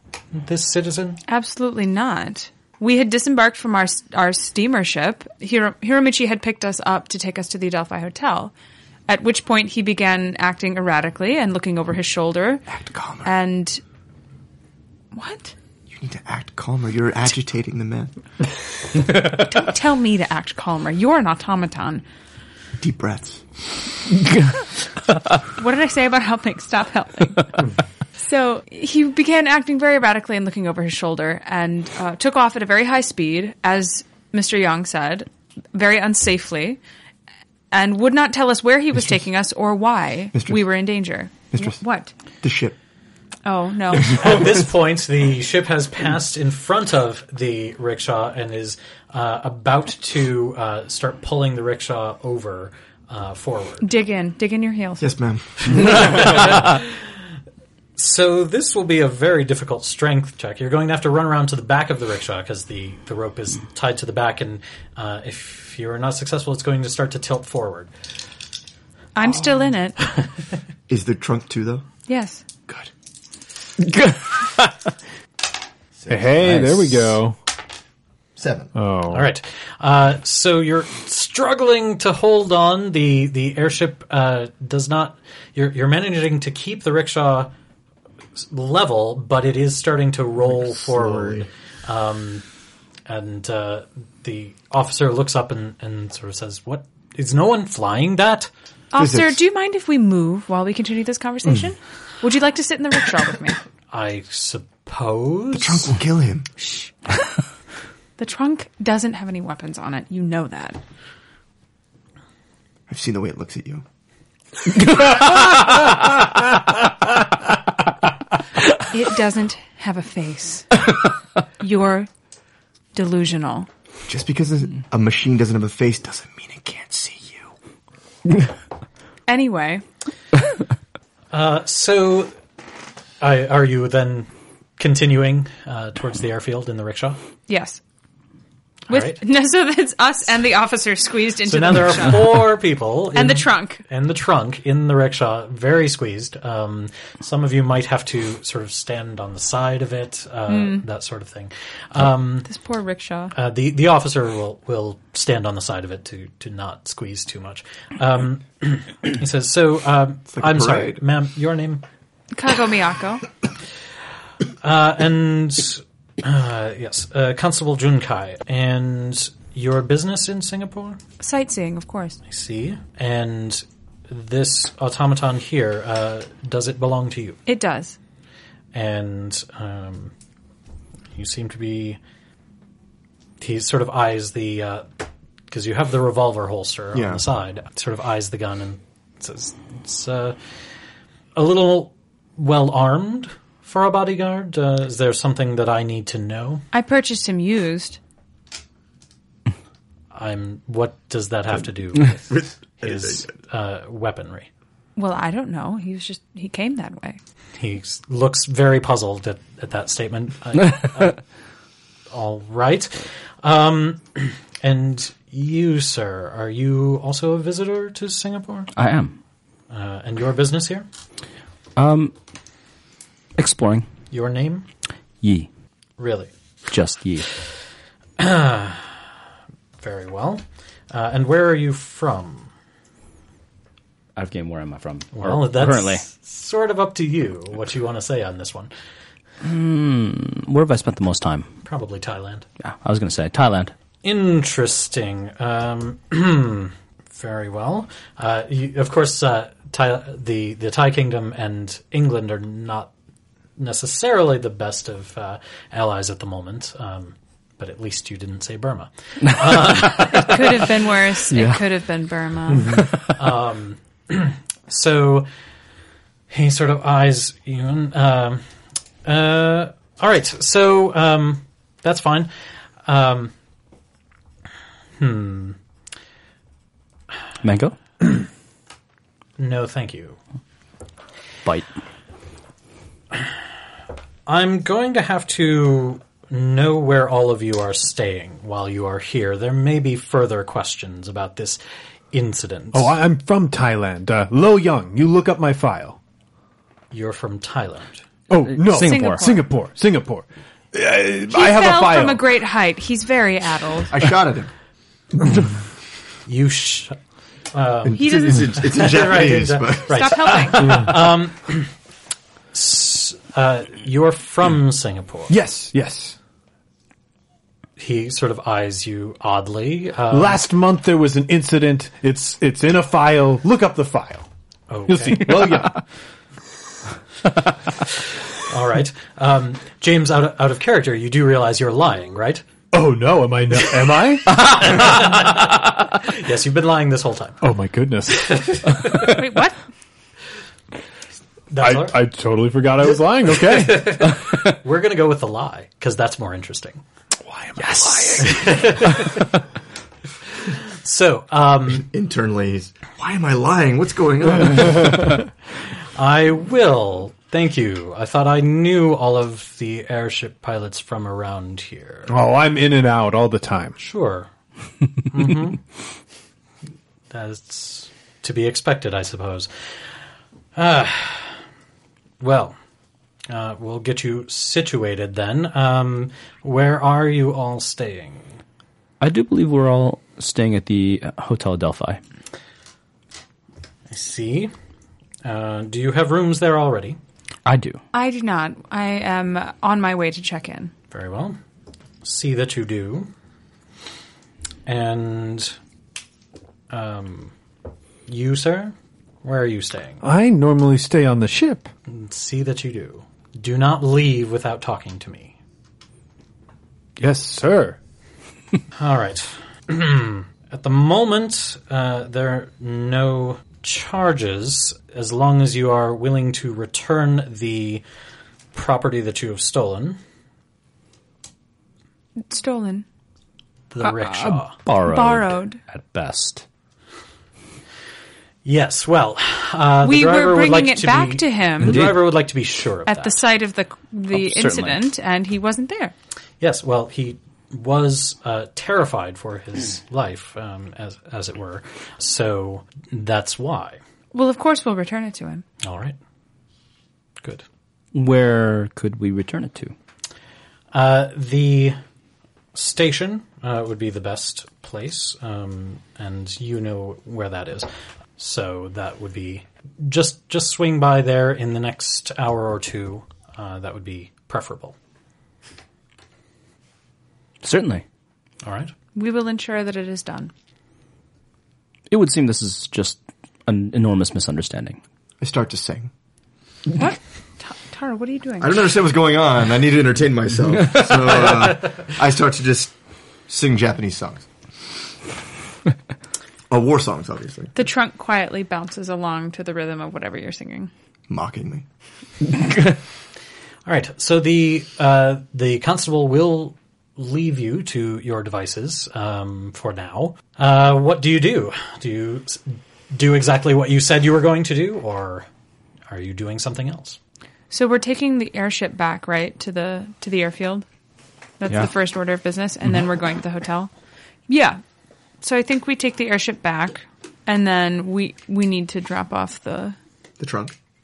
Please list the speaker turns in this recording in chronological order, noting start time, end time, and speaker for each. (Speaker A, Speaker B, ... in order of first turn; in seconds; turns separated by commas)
Speaker A: 0.3-1.2, Speaker B: 1.3-8.5, Speaker B: 9.1-12.7, Speaker C: 12.7-13.3, Speaker B: 13.2-13.8, Speaker B: 15.1-15.6, Speaker C: 15.9-18.1, Speaker B: 19.4-22.0, Speaker C: 22.8-23.4, Speaker B: 25.6-27.6, Speaker B: 28.2-36.8, Speaker B: 37.7-42.1, Speaker C: 40.3-40.6, Speaker C: 41.5-41.8, Speaker C: 42.4-42.8, Speaker B: 43.5-44.4, Speaker A: 44.1-53.9, Speaker B: 53.8-55.1, Speaker C: 55.0-56.3, Speaker A: 55.7-57.2, Speaker A: 58.0-67.9, Speaker B: 69.2-70.0, Speaker C: 70.9-71.9, Speaker B: 72.1-72.4, Speaker D: 73.9-74.6, Speaker C: 76.0-76.5, Speaker E: 76.1-77.4, Speaker D: 76.4-77.1, Speaker C: 78.4-78.7, Speaker E: 78.8-79.3, Speaker A: 79.1-87.5, Speaker A: 88.4-92.5, Speaker C: 90.5-91.5, Speaker A: 93.1-98.5, Speaker B: 98.9-103.6, Speaker C: 99.0-99.4, Speaker A: 103.9-105.9, Speaker C: 105.5-106.5, Speaker B: 106.6-106.9, Speaker B: 108.2-110.8, Speaker C: 112.9-113.8, Speaker B: 118.9-120.9, Speaker B: 121.6-122.1, Speaker B: 122.9-123.7, Speaker C: 124.1-127.5, Speaker B: 129.3-129.8, Speaker A: 131.3-132.3, Speaker A: 133.2-137.2, Speaker B: 137.5-137.8, Speaker A: 138.9-139.2, Speaker B: 138.9-142.5, Speaker A: 141.5-152.5, Speaker B: 143.1-143.8, Speaker B: 150.5-150.8, Speaker B: 152.5-153.3, Speaker A: 153.3-161.8, Speaker C: 160.3-161.0, Speaker B: 162.3-163.3, Speaker A: 164.6-171.0, Speaker B: 171.2-172.2, Speaker A: 172.3-177.4, Speaker B: 177.5-178.0, Speaker A: 178.7-180.1, Speaker A: 181.2-182.0, Speaker A: 183.4-184.9, Speaker A: 185.5-190.4, Speaker C: 186.9-187.2, Speaker A: 191.3-196.7, Speaker B: 196.7-198.0, Speaker A: 200.1-204.5, Speaker C: 202.1-203.3, Speaker B: 205.0-207.2, Speaker A: 207.6-211.2, Speaker A: 212.1-218.7, Speaker D: 218.8-219.2, Speaker A: 219.7-220.9, Speaker D: 221.8-222.2, Speaker D: 223.4-223.9, Speaker A: 224.1-224.7, Speaker D: 225.2-225.5, Speaker A: 226.0-226.3, Speaker D: 226.7-227.3, Speaker A: 228.2-229.0, Speaker A: 229.8-232.5, Speaker D: 234.2-236.1, Speaker A: 235.1-238.7, Speaker D: 239.4-241.5, Speaker A: 241.6-242.5, Speaker D: 242.6-243.7, Speaker A: 244.0-252.9, Speaker A: 253.6-260.5, Speaker D: 259.3-259.6, Speaker B: 260.0-262.8, Speaker D: 261.3-261.6, Speaker D: 262.6-263.1, Speaker A: 263.2-265.3, Speaker A: 266.3-268.4, Speaker A: 269.1-272.3, Speaker A: 272.9-273.3, Speaker A: 275.0-275.6, Speaker D: 277.4-277.8, Speaker A: 279.4-280.2, Speaker A: 284.3-291.6, Speaker A: 292.1-292.9, Speaker E: 292.7-296.0, Speaker A: 296.9-298.1, Speaker E: 298.3-302.2, Speaker D: 298.3-299.3, Speaker B: 298.7-299.5, Speaker B: 301.3-303.9, Speaker C: 303.9-304.5, Speaker A: 306.3-307.0, Speaker A: 307.5-311.7, Speaker C: 307.9-310.2, Speaker B: 308.0-308.9, Speaker B: 309.9-310.9, Speaker A: 312.5-315.4, Speaker E: 315.3-316.1, Speaker A: 317.8-320.4, Speaker E: 320.1-324.3, Speaker A: 324.7-325.3, Speaker E: 324.9-325.8, Speaker A: 328.4-332.4, Speaker E: 332.7-334.4, Speaker A: 333.9-337.4, Speaker E: 337.4-338.5, Speaker A: 338.1-339.1, Speaker B: 339.1-339.6, Speaker A: 341.5-342.0, Speaker E: 341.6-344.1, Speaker A: 343.4-346.8, Speaker E: 347.3-348.9, Speaker A: 348.2-349.2, Speaker A: 350.4-351.9, Speaker C: 351.7-355.0, Speaker A: 355.9-362.1, Speaker E: 362.1-363.7, Speaker A: 363.8-364.3, Speaker A: 365.1-365.6, Speaker A: 367.1-369.5, Speaker A: 370.6-371.4, Speaker A: 372.2-372.6, Speaker A: 373.3-378.4, Speaker D: 379.0-382.0, Speaker A: 383.9-384.5, Speaker A: 385.2-387.0, Speaker D: 387.4-387.8, Speaker B: 387.9-390.7, Speaker A: 390.9-391.4, Speaker A: 392.0-393.1, Speaker A: 394.7-395.6, Speaker A: 396.7-397.3, Speaker A: 398.1-400.0, Speaker E: 400.0-401.7, Speaker A: 401.9-405.4, Speaker E: 407.0-407.8, Speaker A: 408.8-417.8, Speaker A: 418.5-420.0, Speaker B: 422.2-422.9, Speaker A: 423.7-424.6, Speaker D: 424.1-426.4, Speaker B: 424.6-425.6, Speaker A: 428.4-433.2, Speaker B: 429.8-431.9, Speaker D: 431.6-432.2, Speaker B: 432.9-435.9, Speaker D: 434.1-434.8, Speaker A: 436.4-443.8, Speaker B: 444.1-445.4, Speaker A: 445.6-446.0, Speaker D: 447.9-449.7, Speaker A: 450.7-451.8, Speaker A: 452.5-464.8, Speaker D: 467.4-467.8, Speaker A: 468.4-468.7, Speaker B: 468.9-470.3, Speaker D: 471.9-474.8, Speaker C: 475.2-475.9, Speaker B: 476.8-478.7, Speaker C: 478.4-482.8, Speaker C: 483.3-484.3, Speaker C: 486.5-487.5, Speaker B: 487.6-490.7, Speaker C: 491.1-491.6, Speaker A: 493.7-505.3, Speaker A: 505.9-507.0, Speaker B: 507.5-510.6, Speaker B: 511.4-513.7, Speaker B: 514.3-514.6, Speaker B: 515.2-519.8, Speaker C: 520.2-520.5